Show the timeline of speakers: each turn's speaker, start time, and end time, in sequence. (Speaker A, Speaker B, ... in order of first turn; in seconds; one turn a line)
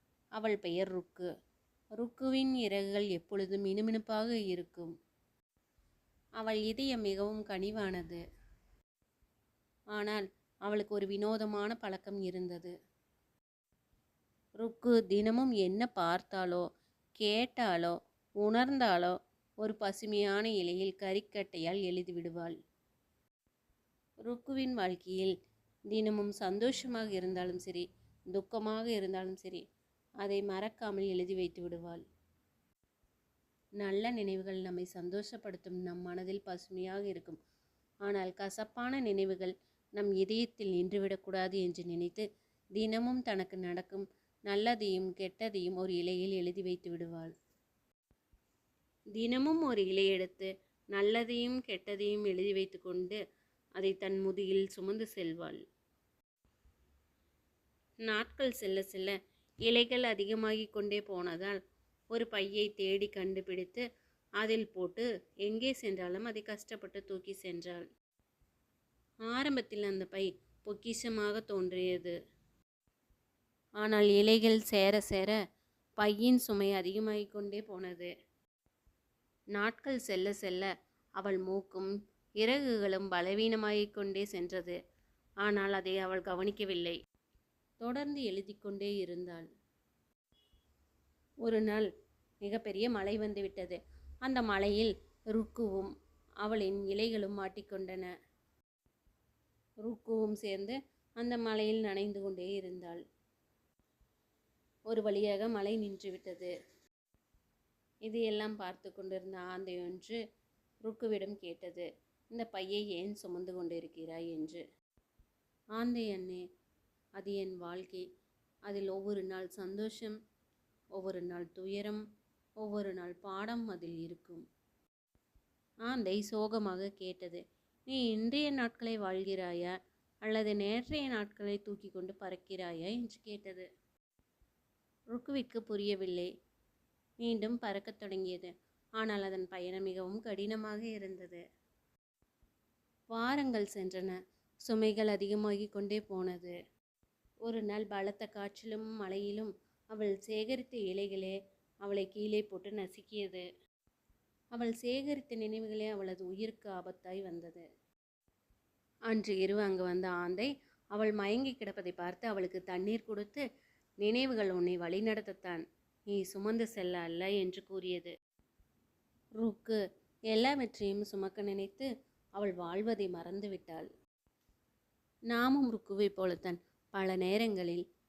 Speaker A: 0.4-1.3
Speaker A: 2.0-4.9
Speaker A: 6.4-8.2
Speaker A: 9.9-12.7
Speaker A: 14.6-16.6
Speaker A: 17.2-22.6
Speaker A: 24.2-25.3
Speaker A: 25.9-29.6
Speaker A: 30.2-32.0
Speaker A: 33.8-37.4
Speaker A: 38.1-42.2
Speaker A: 42.8-47.3
Speaker A: 49.2-53.2
Speaker A: 53.8-55.6
Speaker A: 58.1-59.1
Speaker A: 59.7-61.6
Speaker A: 62.1-63.9
Speaker A: 64.4-67.9
Speaker A: 69.3-72.2
Speaker A: 73.8-75.4
Speaker A: 76.0-78.1
Speaker A: 79.5-84.8
Speaker A: 85.4-87.0
Speaker A: 87.8-89.5
Speaker A: 91.5-91.9
Speaker A: 92.4-95.9
Speaker A: 96.4-98.1
Speaker A: 99.8-103.0
Speaker A: 104.9-106.5
Speaker A: 108.1-110.2
Speaker A: 110.9-114.6
Speaker A: 115.8-116.4
Speaker A: 117.2-118.0
Speaker A: 118.7-120.2
Speaker A: 121.0-122.0
Speaker A: 122.6-124.4
Speaker A: 125.9-129.7
Speaker A: 130.2-133.7
Speaker A: 135.1-136.3
Speaker A: 137.2-141.4
Speaker A: 143.1-146.6
Speaker A: 147.4-153.5
Speaker A: 154.6-157.7
Speaker A: 159.1-163.4
Speaker A: 164.0-168.1
Speaker A: 169.4-169.8
Speaker A: 170.3-173.9
Speaker A: 175.3-177.8